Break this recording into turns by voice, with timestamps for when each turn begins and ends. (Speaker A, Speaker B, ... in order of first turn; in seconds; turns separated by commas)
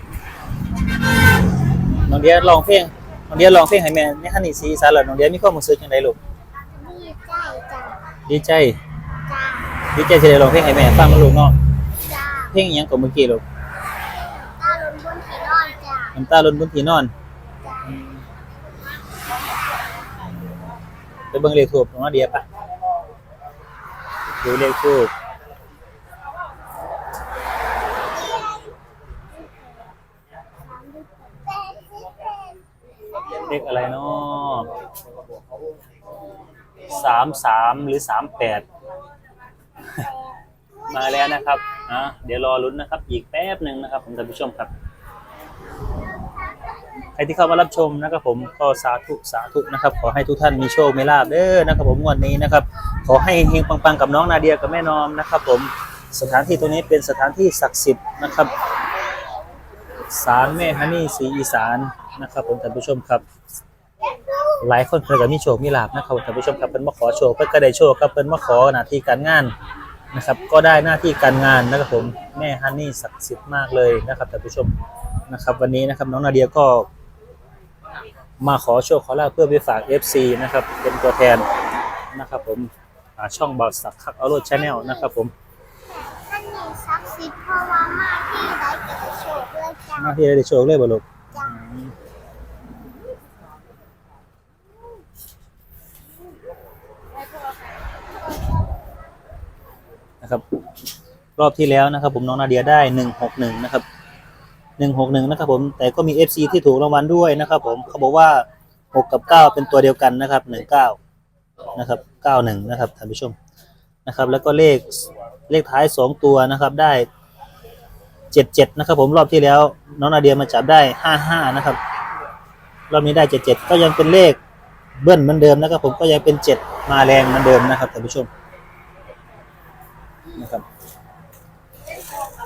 Speaker A: 2.0-6.2, Speaker B: 6.8-8.0, Speaker A: 8.3-8.8, Speaker B: 9.3-9.8, Speaker A: 9.9-11.6, Speaker B: 12.0-12.6, Speaker A: 12.5-13.4, Speaker B: 14.2-16.1, Speaker A: 16.1-17.1, Speaker B: 17.6-18.1, Speaker A: 21.3-22.4, Speaker A: 24.4-25.1, Speaker B: 30.6-32.6, Speaker A: 33.4-34.7, Speaker A: 36.9-38.6, Speaker B: 40.8-41.6, Speaker A: 40.9-44.7, Speaker A: 47.1-58.5, Speaker A: 60.1-63.2, Speaker A: 64.6-69.5, Speaker A: 70.1-74.7, Speaker A: 75.3-76.9, Speaker A: 78.4-81.5, Speaker A: 82.1-85.3, Speaker B: 84.8-85.0, Speaker B: 85.9-90.2, Speaker A: 90.0-91.9, Speaker B: 91.3-91.6, Speaker A: 101.4-103.8, Speaker A: 104.8-111.0, Speaker A: 111.8-113.3, Speaker A: 114.0-117.1, Speaker A: 118.3-121.8, Speaker A: 122.9-124.4, Speaker A: 125.0-128.3, Speaker A: 130.3-130.6